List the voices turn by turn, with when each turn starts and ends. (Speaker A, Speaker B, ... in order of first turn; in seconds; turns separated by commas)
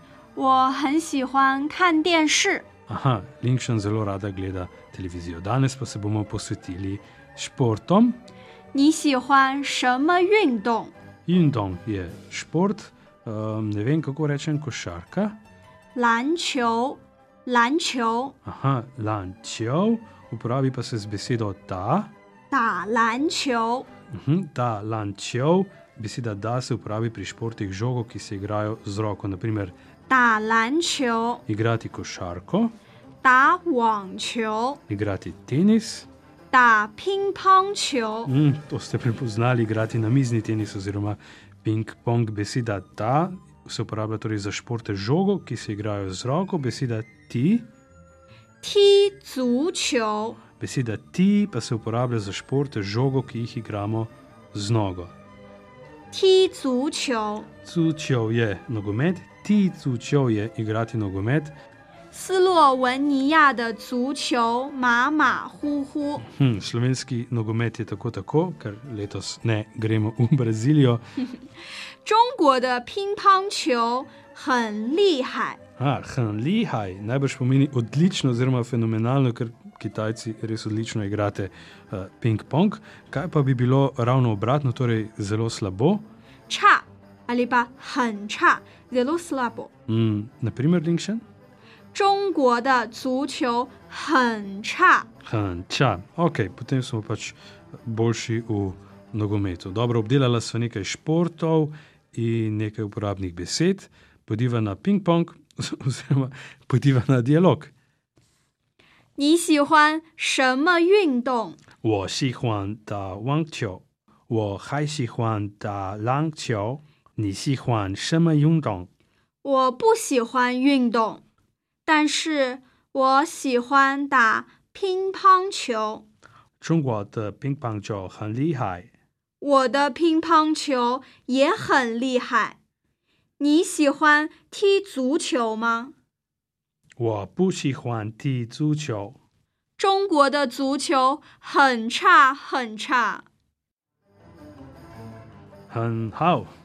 Speaker A: 0.3-2.6, Speaker B: 2.9-8.2, Speaker A: 8.7-10.9, Speaker B: 11.2-15.4, Speaker A: 15.9-18.3, Speaker B: 18.4-22.1, Speaker A: 22.5-23.9, Speaker B: 24.1-29.7, Speaker A: 30.1-31.4, Speaker B: 31.5-32.7, Speaker A: 33.2-34.8, Speaker B: 34.9-36.1, Speaker A: 36.5-38.3, Speaker B: 38.2-47.7, Speaker A: 48.6-50.4, Speaker B: 50.6-55.1, Speaker A: 56.1-57.5, Speaker B: 57.6-61.5, Speaker A: 62.1-66.2, Speaker B: 66.2-71.0, Speaker A: 71.3-75.6, Speaker B: 75.8-86.0, Speaker A: 86.5-89.7, Speaker B: 89.9-91.2, Speaker A: 91.9-95.1, Speaker B: 95.2-107.7, Speaker A: 109.2-111.6, Speaker B: 111.8-118.9, Speaker A: 119.4-121.2, Speaker A: 121.8-126.0, Speaker B: 126.6-128.9, Speaker A: 129.4-132.6, Speaker A: 133.4-135.9, Speaker B: 137.0-139.2, Speaker A: 139.8-143.2, Speaker B: 145.7-146.5